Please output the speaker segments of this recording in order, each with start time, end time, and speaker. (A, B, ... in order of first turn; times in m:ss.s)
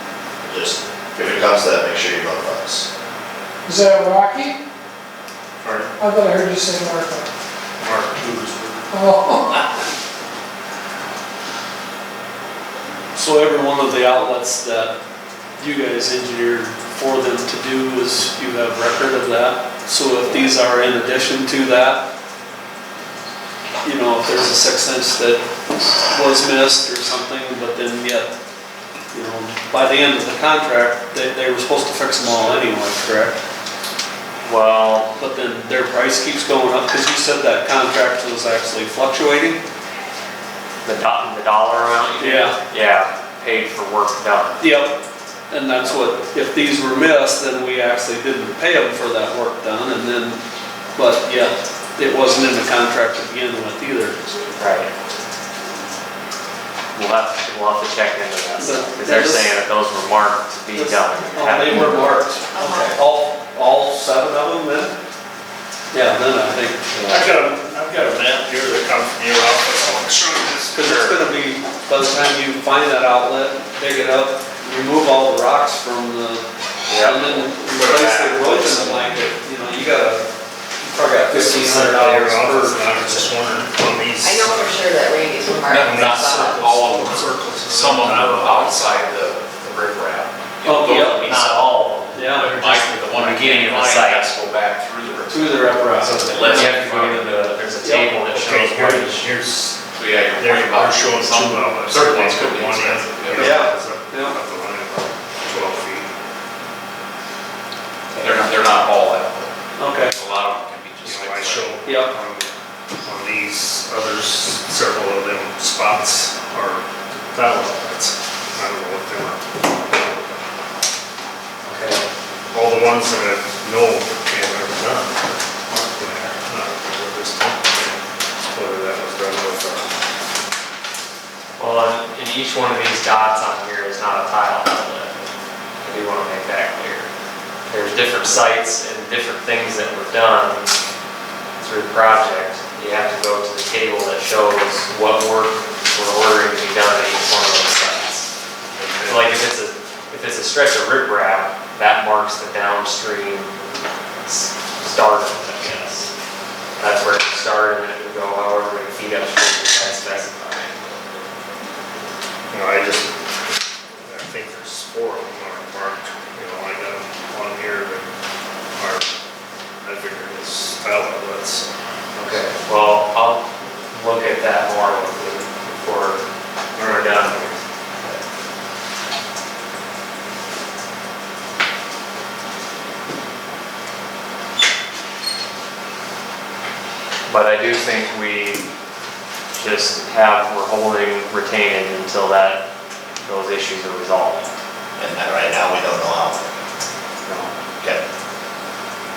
0:00.4-0:02.9 A
0:03.6-0:04.6 B
0:05.6-0:05.9 C
0:06.0-0:07.3 B
0:07.8-0:08.8 C
0:08.9-0:09.6 B
0:13.1-0:14.9 D
0:15.6-0:22.0 D
0:23.8-0:25.4 D
0:26.1-0:28.3 D
0:29.1-0:33.4 D
0:34.4-0:35.1 E
0:35.2-0:39.6 D
0:40.8-0:44.6 E
0:42.2-0:42.6 D
0:44.6-0:45.0 D
0:45.5-0:50.4 D
0:45.8-0:46.1 E
0:51.0-0:54.2 D
0:54.6-0:54.9 E
0:56.9-1:02.1 E
0:58.6-0:59.5 D
1:00.7-1:04.9 D
1:02.5-1:03.0 F
1:05.9-1:06.8 D
1:06.9-1:07.3 E
1:07.1-1:10.8 C
1:10.7-1:16.4 D
1:10.8-1:11.2 E
1:16.9-1:19.2 E
1:17.0-1:20.2 D
1:20.8-1:23.3 D
1:21.3-1:24.9 C
1:24.2-1:26.7 F
1:25.4-1:28.8 C
1:25.7-1:37.6 G
1:30.6-1:31.2 D
1:31.2-1:34.3 E
1:32.1-1:32.6 D
1:35.3-1:36.7 D
1:36.0-1:39.2 E
1:37.8-1:38.1 D
1:38.2-1:39.8 C
1:39.9-1:43.6 G
1:40.3-1:46.1 C
1:43.4-1:44.4 D
1:48.1-1:48.4 E
1:48.2-1:51.8 G
1:49.8-1:50.1 D
1:51.0-1:52.5 C
1:51.8-1:52.1 D
1:53.0-2:00.4 C
2:01.6-2:02.0 E
2:02.5-2:08.0 C
2:08.5-2:09.9 C
2:11.6-2:15.2 E
2:15.8-2:17.1 E
2:17.7-2:20.7 E
2:21.6-2:28.3 E
2:28.7-2:29.3 C
2:29.0-2:33.5 E
2:34.2-2:36.1 E
2:36.8-2:40.7 E
2:39.8-2:40.2 G
2:42.5-2:43.5 C
2:44.0-2:48.1 C
2:48.7-2:49.1 C
2:49.8-2:51.7 C
2:52.1-2:56.2 E
2:56.8-2:58.2 E
2:56.8-2:57.5 C
3:07.3-3:08.6 E
3:09.5-3:12.6 E
3:13.2-3:14.5 E
3:15.0-3:16.5 A
3:17.2-3:17.5 E